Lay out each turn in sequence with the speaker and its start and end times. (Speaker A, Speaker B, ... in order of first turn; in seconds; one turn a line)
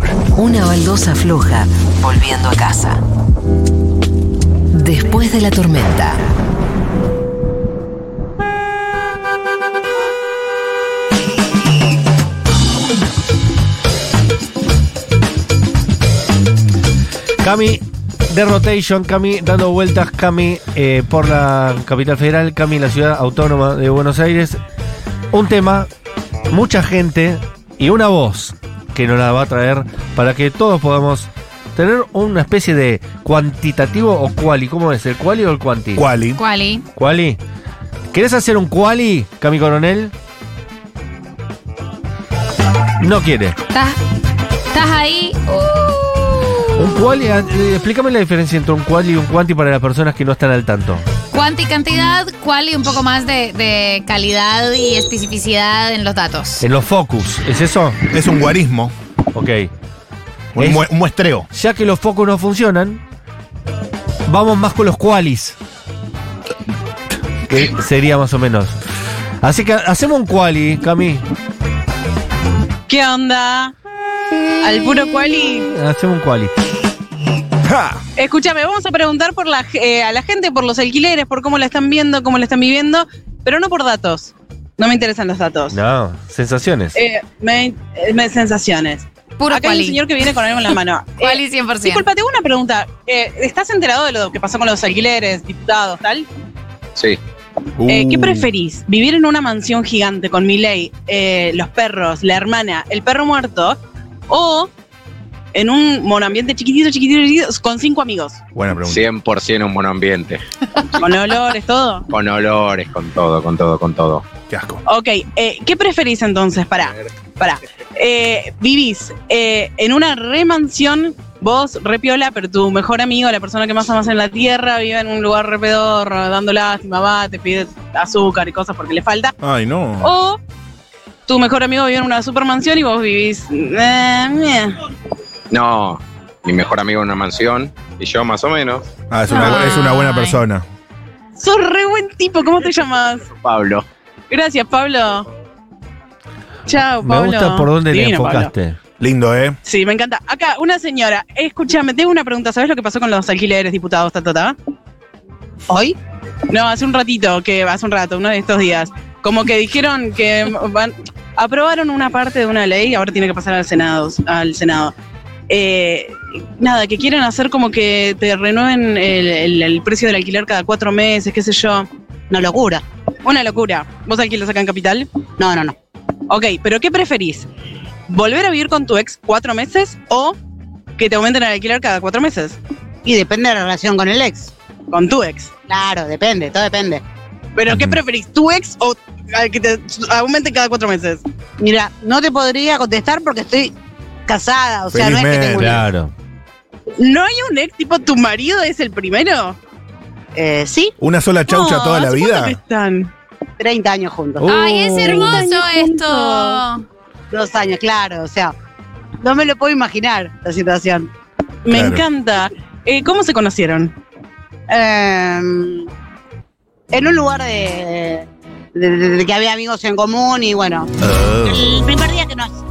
Speaker A: 0.3-3.0
Speaker A: 4.7-6.2
Speaker B: 17.4-24.6
Speaker B: 25.3-25.9
Speaker B: 26.5-36.0
Speaker C: 36.0-36.4
Speaker D: 36.4-36.8
Speaker B: 37.0-37.4
Speaker B: 38.1-40.1
Speaker B: 43.0-43.6
Speaker D: 43.7-44.0
Speaker D: 44.7-46.8
Speaker B: 46.8-51.0
Speaker D: 51.3-56.6
Speaker B: 56.6-58.0
Speaker C: 58.1-58.9
Speaker B: 59.3-59.7
Speaker B: 60.5-60.8
Speaker C: 60.6-61.5
Speaker B: 61.5-63.0
Speaker B: 64.2-65.5
Speaker B: 67.5-68.8
Speaker B: 69.4-71.2
Speaker E: 72.9-73.7
Speaker E: 74.6-75.7
Speaker B: 75.7-76.5
Speaker C: 77.6-78.0
Speaker E: 78.2-85.8
Speaker B: 85.7-87.0
Speaker E: 86.9-96.3
Speaker D: 89.4-90.0
Speaker D: 91.2-92.1
Speaker E: 97.8-103.8
Speaker E: 104.3-104.7
Speaker E: 105.5-108.4
Speaker C: 108.5-109.0
Speaker F: 108.8-110.4
Speaker E: 111.0-112.0
Speaker F: 112.1-114.2
Speaker C: 114.5-114.8
Speaker E: 114.9-129.3
Speaker C: 129.4-130.1
Speaker E: 130.0-130.4
Speaker E: 131.3-134.7
Speaker F: 135.5-138.9
Speaker C: 139.1-140.7
Speaker E: 139.3-139.9
Speaker D: 139.4-140.4
Speaker E: 141.4-143.3
Speaker F: 143.3-143.9
Speaker E: 144.3-145.3
Speaker E: 146.7-148.5
Speaker B: 147.0-148.8
Speaker C: 149.0-149.6
Speaker E: 149.6-154.5
Speaker G: 155.7-155.9
Speaker E: 156.5-164.9
Speaker E: 165.5-171.9
Speaker G: 172.3-172.8
Speaker E: 173.2-175.1
Speaker G: 175.4-175.7
Speaker E: 176.3-177.5
Speaker E: 178.1-180.3
Speaker E: 181.0-182.6
Speaker G: 183.0-184.5
Speaker E: 184.9-185.5
Speaker G: 185.7-187.0
Speaker E: 187.6-191.2
Speaker C: 187.7-188.0
Speaker G: 191.6-193.7
Speaker G: 194.3-195.9
Speaker C: 194.9-195.8
Speaker B: 195.6-196.1
Speaker E: 197.0-199.6
Speaker G: 200.3-200.9
Speaker C: 201.0-202.6
Speaker E: 201.5-203.1
Speaker G: 203.6-204.6
Speaker B: 204.4-205.4
Speaker D: 204.4-206.8
Speaker E: 205.0-206.6
Speaker G: 207.3-208.5
Speaker G: 209.2-211.1
Speaker E: 211.7-213.9
Speaker C: 211.7-212.0
Speaker G: 214.7-215.9
Speaker G: 216.9-220.9
Speaker C: 221.1-221.7
Speaker G: 221.4-222.5